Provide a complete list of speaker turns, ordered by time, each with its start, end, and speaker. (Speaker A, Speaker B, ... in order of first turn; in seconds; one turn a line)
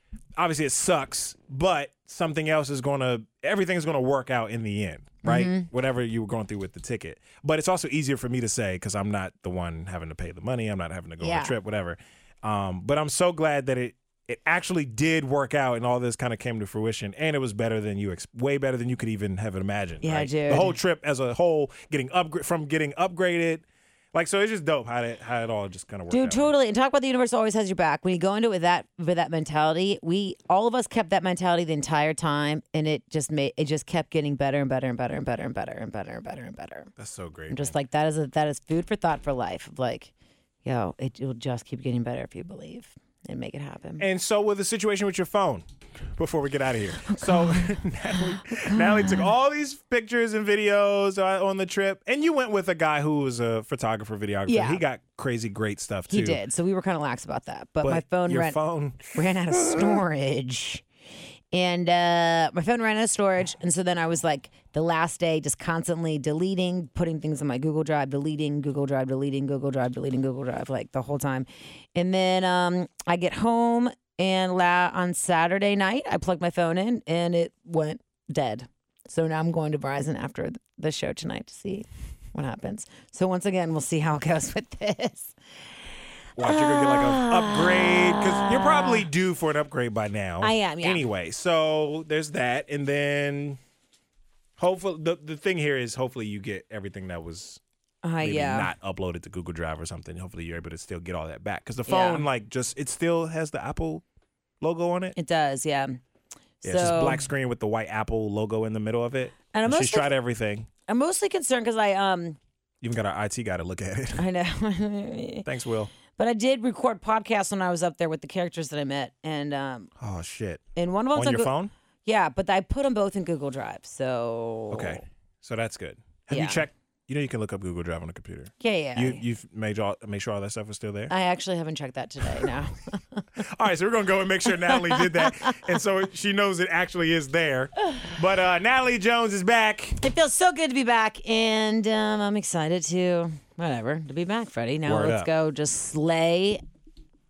Speaker A: 0.4-26.5
Speaker B: 5.2-5.7
Speaker B: 11.2-11.6
Speaker B: 20.0-20.8
Speaker B: 26.1-36.9
Speaker A: 37.0-37.7
Speaker B: 37.5-40.1
Speaker B: 40.6-44.0
Speaker A: 44.0-56.4
Speaker B: 47.1-49.3
Speaker B: 54.5-54.8
Speaker B: 56.1-58.6
Speaker A: 57.8-60.0
Speaker B: 59.1-60.8
Speaker B: 61.5-85.4
Speaker A: 86.4-93.6
Speaker B: 86.4-89.1
Speaker B: 90.4-91.0
Speaker A: 94.6-97.6
Speaker B: 98.0-98.7
Speaker A: 98.2-104.0
Speaker B: 101.9-102.2
Speaker A: 104.6-105.2
Speaker B: 105.2-106.0
Speaker B: 106.6-107.3
Speaker A: 106.6-110.7
Speaker B: 109.5-110.1
Speaker B: 110.9-112.4
Speaker A: 112.8-114.2
Speaker B: 114.2-115.5
Speaker A: 115.5-115.9
Speaker B: 116.1-119.9
Speaker A: 120.0-120.6
Speaker B: 120.8-121.5
Speaker A: 121.1-121.7
Speaker B: 122.0-125.0
Speaker A: 124.7-131.1
Speaker B: 126.3-126.7
Speaker B: 128.6-129.2
Speaker B: 131.1-133.2
Speaker A: 132.2-132.5
Speaker A: 133.4-140.0
Speaker B: 134.7-135.6
Speaker B: 140.0-146.6
Speaker A: 144.9-145.3